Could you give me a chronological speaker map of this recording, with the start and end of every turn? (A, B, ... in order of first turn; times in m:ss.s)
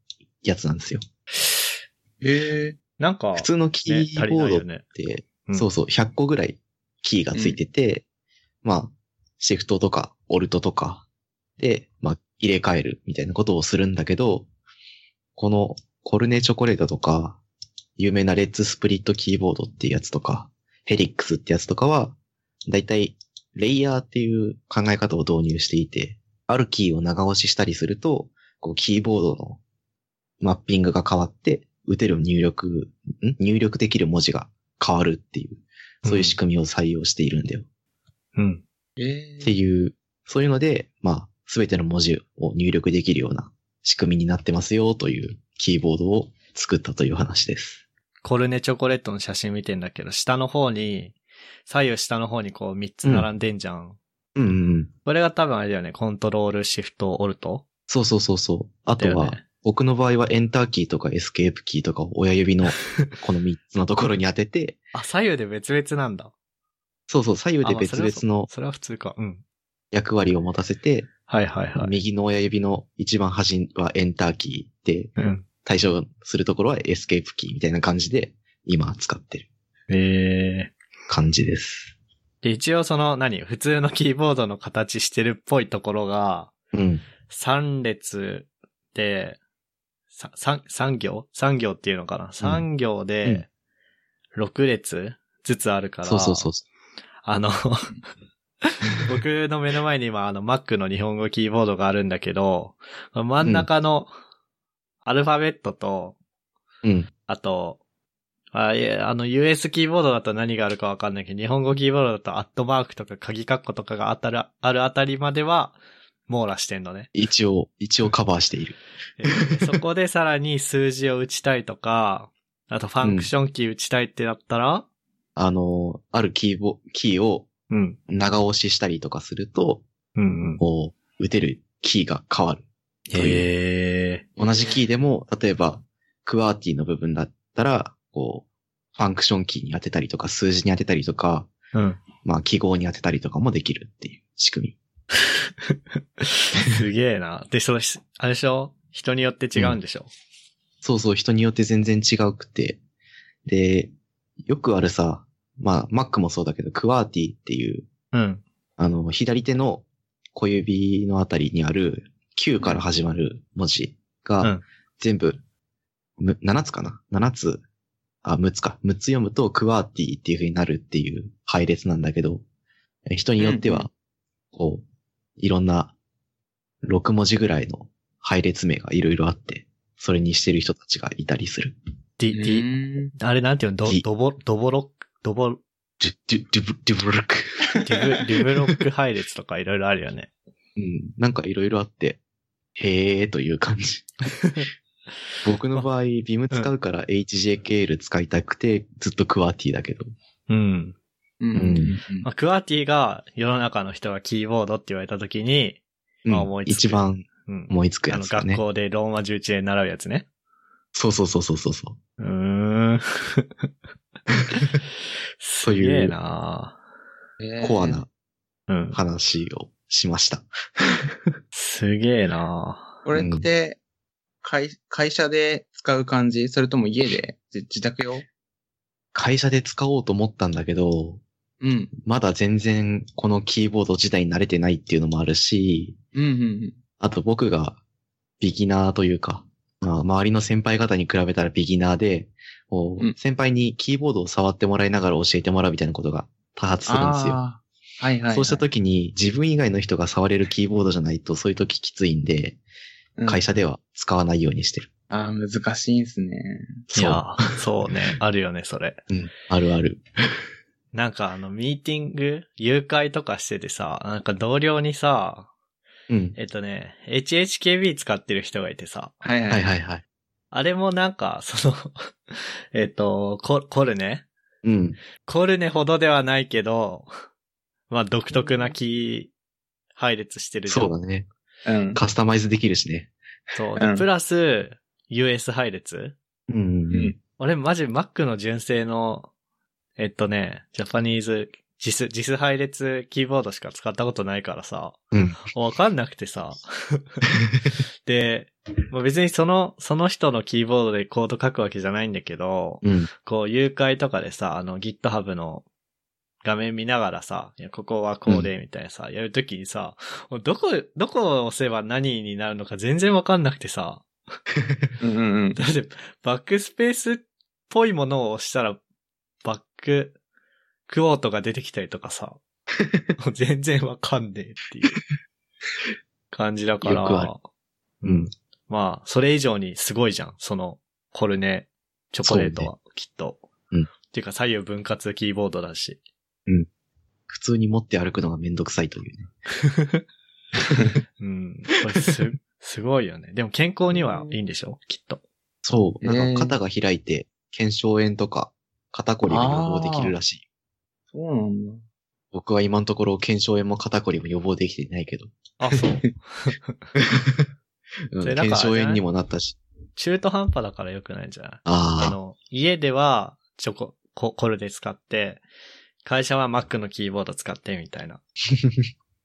0:00.4-0:01.0 A
0:02.2-0:02.8 B
0:03.0-0:04.8 C
0:03.4-0:08.0 A
0:08.6-0:11.0 A
0:11.6-0:14.5 A
0:15.4-0:17.4 A
0:18.0-0:29.6 A
0:30.4-0:37.6 A
0:36.0-0:36.4 C
0:38.4-0:38.6 C
0:39.0-0:39.5 B
0:39.4-0:47.8 A
0:48.2-0:51.2 C
0:51.7-0:54.0 C
0:54.4-0:54.9 A
0:55.0-0:57.6 C
0:57.9-1:04.8 A
0:59.0-0:59.4 C
1:04.9-1:06.3 C
1:07.1-1:08.5 A
1:07.6-1:09.4 C
1:09.9-1:11.1 A
1:11.3-1:12.0 C
1:11.8-1:15.1 A
1:15.2-1:15.4 C
1:15.6-1:19.5 A
1:19.9-1:20.7 C
1:21.1-1:21.9 A
1:22.4-1:26.5 C
1:26.7-1:27.0 A
1:27.3-1:29.4 C
1:30.1-1:33.5 C
1:34.4-1:36.5 C
1:36.0-1:36.6 A
1:37.2-1:38.0 C
1:38.6-1:44.1 C
1:43.4-1:43.7 A
1:45.0-1:46.2 C
1:46.8-1:47.1 A
1:47.3-1:47.8 C
1:48.5-1:55.8 C
1:56.3-1:57.1 C
1:57.1-1:58.8 A
1:59.2-2:04.9 C
2:03.0-2:03.3 A
2:05.4-2:07.5 A
2:07.7-2:08.0 C
2:08.1-2:09.8 A
2:10.2-2:10.6 C
2:10.6-2:13.4 A
2:13.1-2:14.2 C
2:14.4-2:21.5 A
2:21.7-2:22.0 C
2:22.2-2:24.8 A
2:25.7-2:30.1 C
2:30.8-2:32.8 A
2:33.4-2:33.9 A
2:34.4-2:37.9 A
2:38.1-2:38.4 C
2:38.8-2:45.4 A
2:46.2-2:47.6 A
2:48.2-2:52.4 A
2:53.1-2:53.9 A
2:53.4-2:53.9 B
2:54.5-2:54.8 A
2:55.4-2:55.9 A
2:56.8-3:01.8 A
3:02.2-3:05.6 C
3:02.3-3:03.1 B
3:06.0-3:07.8 A
3:07.8-3:10.3 C
3:10.8-3:12.2 A
3:12.8-3:14.1 A
3:14.4-3:14.7 C
3:15.4-3:20.0 A
3:20.5-3:21.0 C
3:21.4-3:22.3 B
3:21.6-3:21.9 A
3:22.2-3:30.3 C
3:26.2-3:28.6 A
3:30.9-3:32.0 A
3:32.2-3:33.5 C
3:35.4-3:36.8 C
3:35.6-3:36.1 A
3:37.4-3:38.0 B
3:37.6-3:38.1 A
3:38.7-3:39.0 C
3:38.9-3:41.2 A
3:41.5-3:42.9 C
3:43.0-3:43.8 B
3:43.1-3:43.5 A
3:44.4-3:48.2 B
3:49.1-3:51.2 A
3:51.6-3:51.9 B
3:52.0-3:56.0 A
3:56.1-3:56.8 B
3:57.0-3:57.8 A
3:58.4-4:07.4 A
4:06.9-4:08.6 B
4:08.3-4:12.6 A
4:13.2-4:14.9 A
4:15.1-4:16.8 B
4:16.9-4:17.4 A
4:17.0-4:19.0 C
4:19.1-4:20.0 A
4:20.9-4:25.5 C
4:26.1-4:26.4 A
4:26.4-4:29.2 C
4:29.2-4:29.7 B
4:29.5-4:30.0 A
4:30.5-4:34.2 C
4:34.6-4:35.0 A
4:35.2-4:37.1 C
4:37.9-4:39.3 C
4:40.0-4:40.9 C
4:40.7-4:41.3 A
4:41.6-4:42.0 B
4:42.0-4:43.1 A
4:43.6-4:46.2 C
4:43.8-4:44.0 B
4:46.5-4:47.1 A
4:47.4-4:49.3 C
4:50.0-4:57.3 C
4:55.1-4:55.4 A
4:58.0-5:05.6 C
5:02.8-5:03.1 A
5:06.4-5:14.1 C
5:15.0-5:15.6 B
5:15.6-5:18.8 C
5:19.4-5:20.2 C
5:20.9-5:22.4 C
5:23.2-5:25.0 C
5:26.3-5:27.4 C
5:26.8-5:27.3 A
5:28.0-5:33.4 C
5:28.0-5:28.3 A
5:32.2-5:32.7 A
5:34.1-5:36.0 C
5:37.3-5:39.3 A
5:39.6-5:40.0 C
5:41.2-5:45.2 C
5:45.6-5:50.4 A
5:46.0-5:46.5 B
5:49.2-5:50.1 B
5:51.1-5:51.8 B
5:52.3-5:55.4 A
5:55.6-5:56.8 C
5:57.0-5:57.5 A
5:58.1-5:59.6 A
5:58.2-5:59.0 C
6:00.0-6:05.4 C
6:01.6-6:02.2 A
6:06.0-6:08.2 C
6:08.5-6:08.9 A